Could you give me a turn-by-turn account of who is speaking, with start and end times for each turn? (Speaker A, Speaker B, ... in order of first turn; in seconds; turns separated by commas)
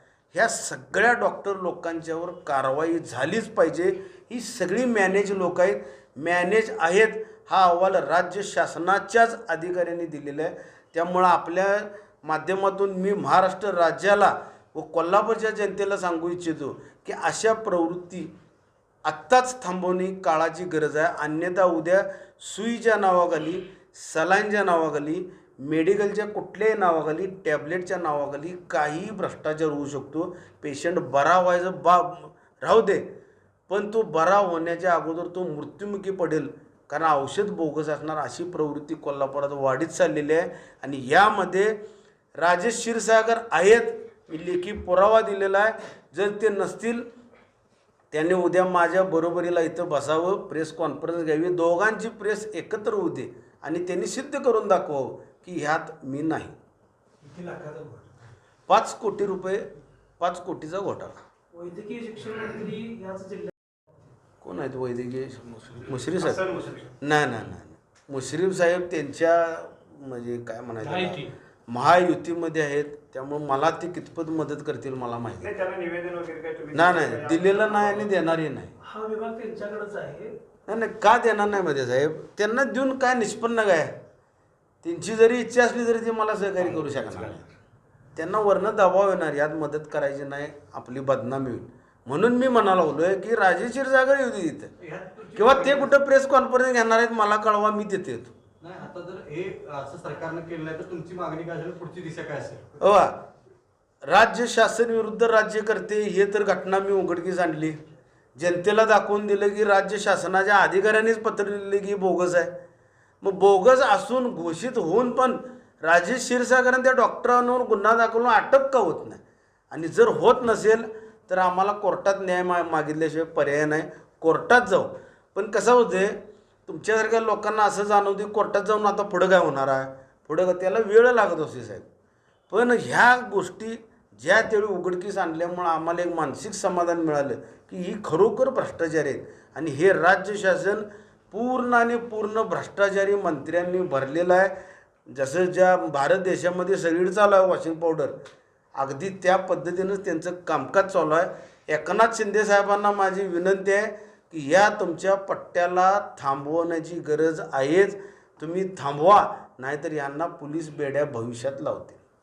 Speaker A: 0.3-18.3, Speaker A: 19.0-33.0, Speaker A: 33.7-41.8, Speaker A: 42.4-47.0, Speaker A: 48.1-56.5, Speaker B: 57.2-58.0, Speaker A: 58.7-59.7, Speaker A: 60.2-61.1, Speaker B: 61.5-63.5, Speaker A: 64.4-66.5, Speaker C: 66.2-66.9, Speaker A: 67.0-75.5, Speaker C: 75.4-78.1, Speaker A: 76.7-78.7, Speaker B: 78.8-80.3, Speaker A: 80.7-83.9, Speaker A: 84.8-87.4, Speaker A: 88.1-94.7, Speaker D: 94.8-95.9, Speaker A: 95.3-98.3, Speaker D: 98.6-102.7, Speaker A: 102.8-103.2, Speaker A: 104.0-107.8, Speaker A: 108.3-112.5, Speaker A: 113.2-126.1, Speaker A: 126.7-131.9, Speaker A: 132.5-144.6, Speaker A: 145.1-148.2, Speaker A: 148.8-162.0